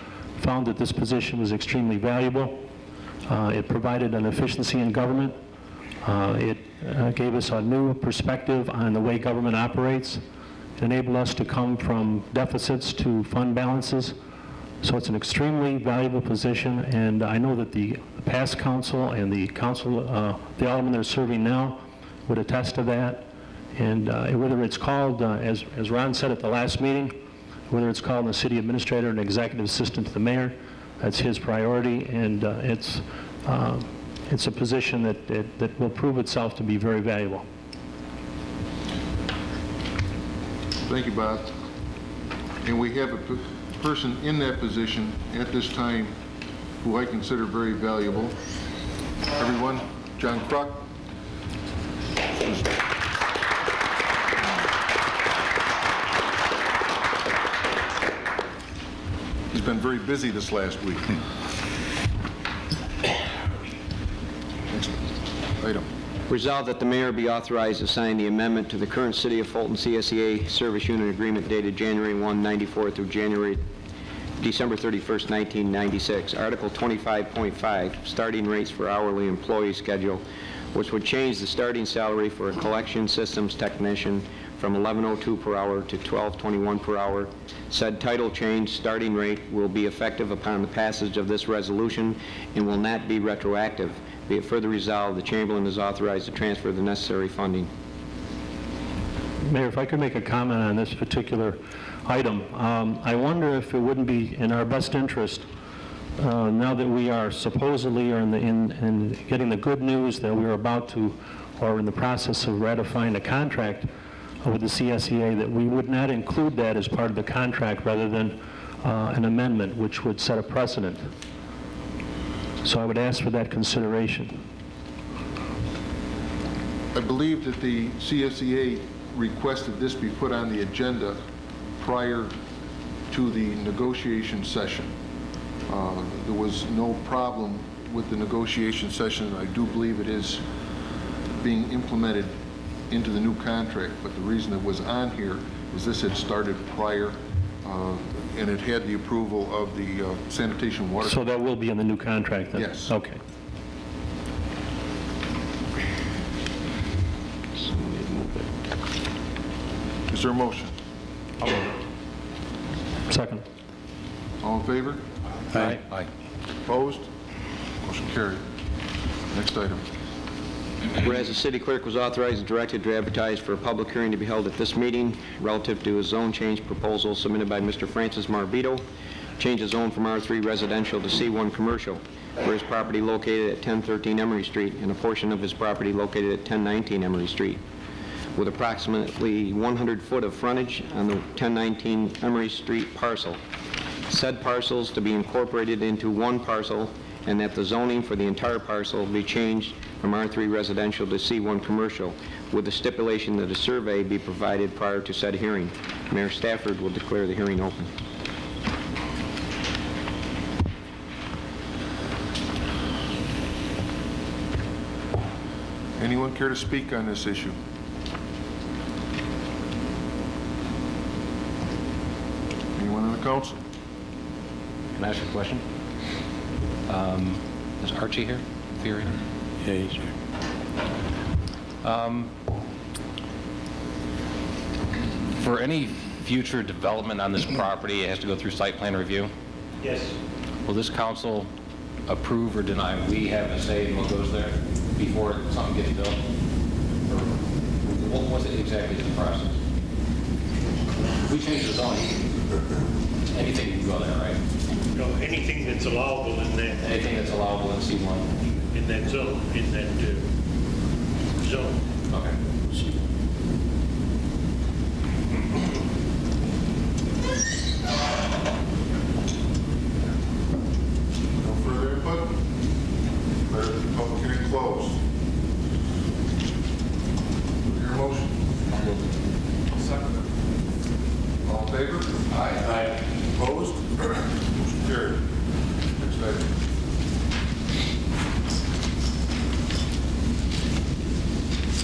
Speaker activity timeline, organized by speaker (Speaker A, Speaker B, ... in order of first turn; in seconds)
Speaker A: 0.4-2.6, 3.3-5.4, 6.0-10.2, 10.8-14.2, 14.8-27.2, 27.7-37.5, 99.4-105.5, 106.2-113.9, 114.4-121.1, 122.6-124.4, 151.0-153.2, 163.1-163.4
Speaker B: 40.9-41.5, 42.6-46.1, 46.8-48.4, 49.4-50.9, 52.3-52.8, 59.5-61.2, 64.7-65.9, 126.9-131.2, 131.8-132.3, 133.1-134.9, 135.7-140.4, 141.4-142.3, 142.9-151.2, 152.6-152.9, 160.1-160.8, 164.4-165.0, 166.7-167.1, 167.8-168.4, 169.3-169.8, 216.0-217.6, 222.8-223.6, 271.4-272.4, 273.4-275.0, 277.6-278.9, 281.4-285.3, 286.0-286.5
Speaker C: 66.3-73.6, 74.4-80.2, 80.7-97.7, 157.8-158.4, 171.0-178.8, 179.4-187.6, 188.4-193.4, 194.1-207.9
Speaker D: 165.5-166.1, 224.9-225.6, 226.9-229.2, 231.8-232.3, 235.4-239.3, 240.7-241.5, 242.1-246.2, 247.1-249.6, 251.2-252.2, 253.3-254.4, 256.8-258.3, 262.1-262.4
Speaker E: 239.8-240.2, 254.9-256.8, 258.7-260.3, 261.4-261.8